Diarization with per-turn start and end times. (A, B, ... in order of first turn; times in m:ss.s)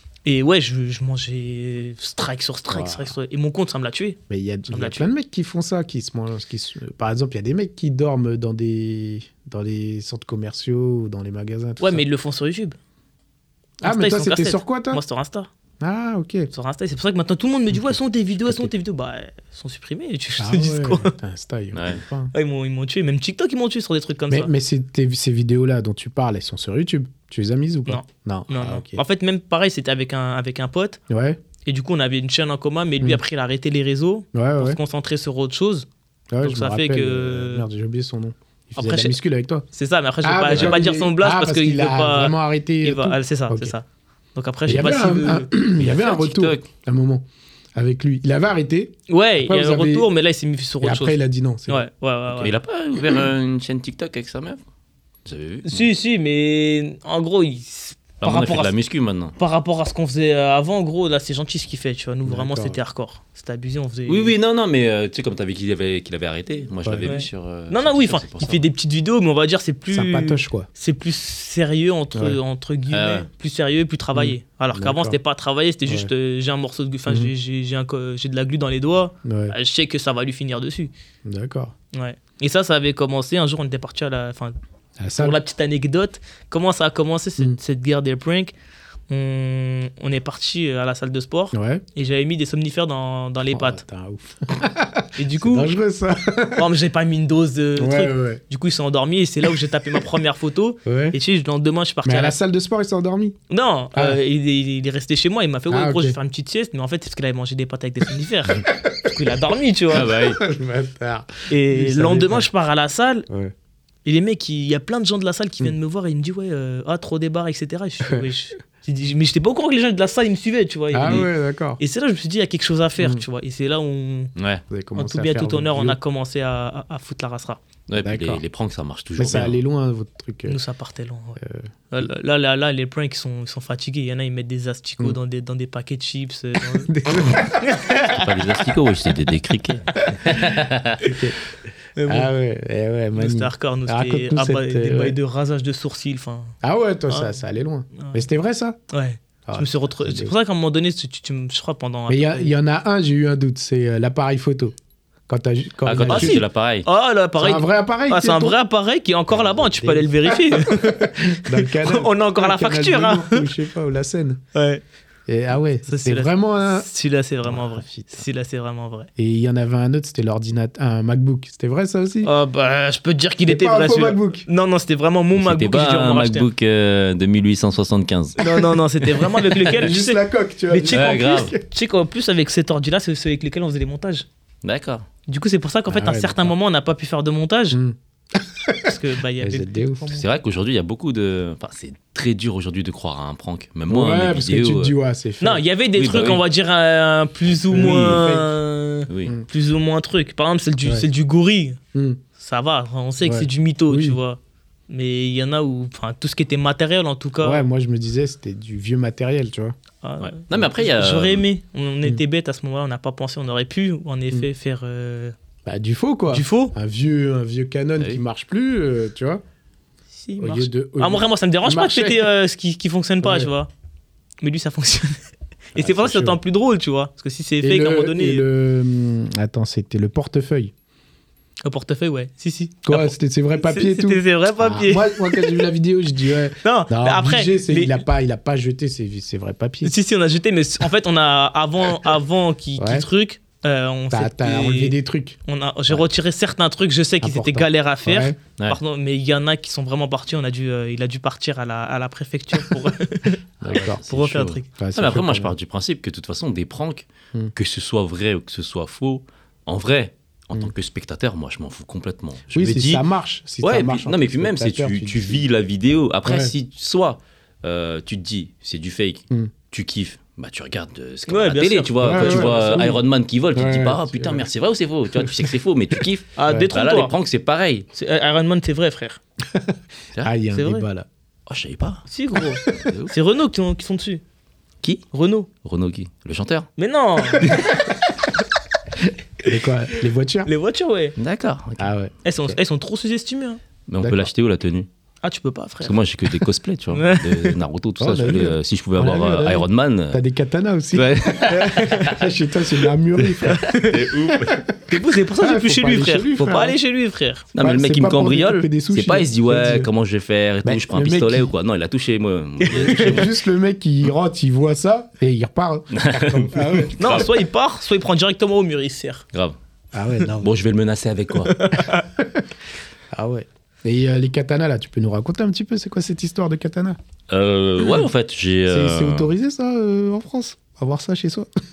0:00.2-0:04.2 A
0:02.7-0:03.1 B
0:04.3-0:12.0 B
0:04.7-0:05.1 A
0:11.8-0:12.8 A
0:13.8-0:15.0 B
0:13.8-0:15.5 A
0:15.8-0:16.5 B
0:16.5-0:21.1 A
0:17.7-0:18.7 B
0:20.4-0:22.3 B
0:21.7-0:22.0 C
0:22.3-0:24.5 A
0:24.3-0:29.0 B
0:27.9-0:31.0 A
0:31.1-0:31.4 B
0:31.6-0:35.9 A
0:34.3-0:34.8 B
0:36.3-0:39.6 B
0:36.4-0:37.6 A
0:38.8-0:39.2 A
0:39.7-0:45.5 A
0:40.2-0:43.7 B
0:44.6-0:50.1 B
0:45.7-0:46.7 C
0:49.1-0:51.2 A
0:50.8-0:51.9 B
0:51.7-0:52.5 A
0:52.4-0:54.6 C
0:55.2-0:55.9 C
0:55.6-0:58.7 A
0:58.2-0:59.4 C
0:59.4-1:04.3 A
1:02.2-1:02.8 B
1:04.1-1:08.7 C
1:06.8-1:07.1 B
1:07.0-1:20.9 A
1:09.9-1:10.7 B
1:12.9-1:13.3 C
1:14.1-1:15.2 B
1:15.8-1:16.1 B
1:17.1-1:17.3 B
1:19.2-1:19.6 B
1:21.2-1:21.7 B
1:21.9-1:24.5 A
1:25.0-1:25.4 B
1:25.2-1:28.5 A
1:29.1-1:33.8 A
1:31.5-1:31.8 B
1:33.5-1:36.7 B
1:35.2-1:35.7 A
1:36.6-1:42.4 A
1:37.8-1:38.4 B
1:40.8-1:41.2 B
1:42.0-1:43.4 B
1:43.5-1:50.1 A
1:45.7-1:46.2 B
1:48.7-1:49.1 B
1:49.9-1:50.4 C
1:49.9-1:52.5 B
1:51.5-1:53.3 A
1:54.0-2:04.3 A
2:00.9-2:01.8 B
2:04.4-2:04.6 C
2:04.7-2:06.0 B
2:05.0-2:07.6 A
2:07.9-2:09.6 C
2:08.0-2:08.4 B
2:09.2-2:10.6 B
2:10.5-2:11.4 A
2:11.4-2:11.7 B
2:11.9-2:18.2 A
2:16.6-2:17.8 B
2:18.1-2:21.0 C
2:20.1-2:20.5 B
2:21.0-2:21.4 B
2:22.0-2:22.3 A
2:22.1-2:25.2 B
2:23.2-2:26.5 A
2:26.6-2:28.8 B
2:27.1-2:27.4 A
2:28.0-2:28.2 A
2:28.9-2:32.5 A
2:29.4-2:30.3 B
2:32.1-2:34.7 B
2:35.3-2:36.4 B
2:35.8-2:36.8 C
2:36.1-2:43.5 A
2:37.4-2:38.6 B
2:39.3-2:44.4 B
2:44.5-2:44.8 A
2:45.3-2:46.9 B
2:45.9-2:49.1 A
2:47.4-2:48.2 B
2:49.2-2:52.3 B
2:52.2-2:56.5 A
2:53.4-2:54.4 B
2:55.4-2:58.6 C
2:58.4-3:04.3 A
2:59.2-2:59.7 C
2:59.6-3:01.6 B
3:00.9-3:01.5 C
3:04.6-3:05.1 C
3:05.3-3:07.8 A
3:05.9-3:06.5 B
3:07.7-3:10.0 B
3:08.8-3:10.3 A
3:10.1-3:14.9 C
3:13.9-3:15.6 B
3:15.4-3:21.8 A
3:15.9-3:16.4 C
3:17.7-3:18.5 B
3:19.1-3:19.4 C
3:21.9-3:22.2 B
3:22.4-3:27.6 A
3:23.2-3:24.2 B
3:27.4-3:29.7 B
3:30.0-3:35.3 A
3:30.5-3:31.4 C
3:35.6-3:39.4 B
3:36.3-3:36.7 A
3:40.2-3:43.7 A
3:40.4-3:42.3 B
3:43.2-3:43.5 B
3:44.4-3:45.2 A
3:45.7-3:48.4 A
3:45.8-3:46.4 B
3:47.6-3:50.7 B
3:51.6-3:55.7 A
3:52.8-3:59.9 B
3:56.6-3:58.0 A
3:59.8-4:04.9 A
4:02.8-4:03.1 B
4:04.1-4:05.4 B
4:05.5-4:14.7 A
4:07.2-4:08.4 B
4:13.6-4:14.0 B
4:13.7-4:23.0 C
4:14.8-4:15.5 B
4:22.5-4:25.4 B
4:23.6-4:37.8 C
4:26.2-4:26.5 B
4:31.3-4:32.9 A
4:32.0-4:33.0 B
4:33.5-4:34.5 B
4:35.2-4:35.5 B
4:36.4-4:37.1 A
4:37.9-4:39.2 A
4:39.5-4:41.1 B
4:40.5-4:40.8 A
4:41.5-4:42.0 C
4:42.1-4:44.2 A
4:42.8-4:43.1 C
4:45.1-4:45.5 A
4:45.6-4:46.7 C
4:46.8-4:47.8 A
4:47.4-4:47.9 B
4:49.4-4:50.5 B
4:49.9-4:51.2 A
4:51.2-4:51.9 C
4:51.8-4:52.6 B
4:52.2-4:53.6 A
4:53.9-4:54.9 C
4:54.0-4:54.3 B
4:55.2-4:56.0 A
4:55.8-5:00.2 C
4:56.9-4:57.6 A
4:58.0-5:03.7 B
5:00.9-5:02.2 C
5:03.4-5:04.6 C
5:03.5-5:04.1 A
5:04.4-5:06.8 B
5:04.9-5:07.5 A
5:07.5-5:13.3 C
5:07.6-5:09.9 B
5:10.6-5:11.5 B
5:12.7-5:13.2 A
5:12.7-5:17.3 B
5:15.9-5:17.3 C
5:17.0-5:19.2 A
5:19.9-5:20.5 B
5:20.4-5:21.7 C
5:21.5-5:22.0 A
5:22.2-5:22.4 B
5:23.1-5:27.0 B
5:27.3-5:29.3 C
5:28.7-5:31.5 B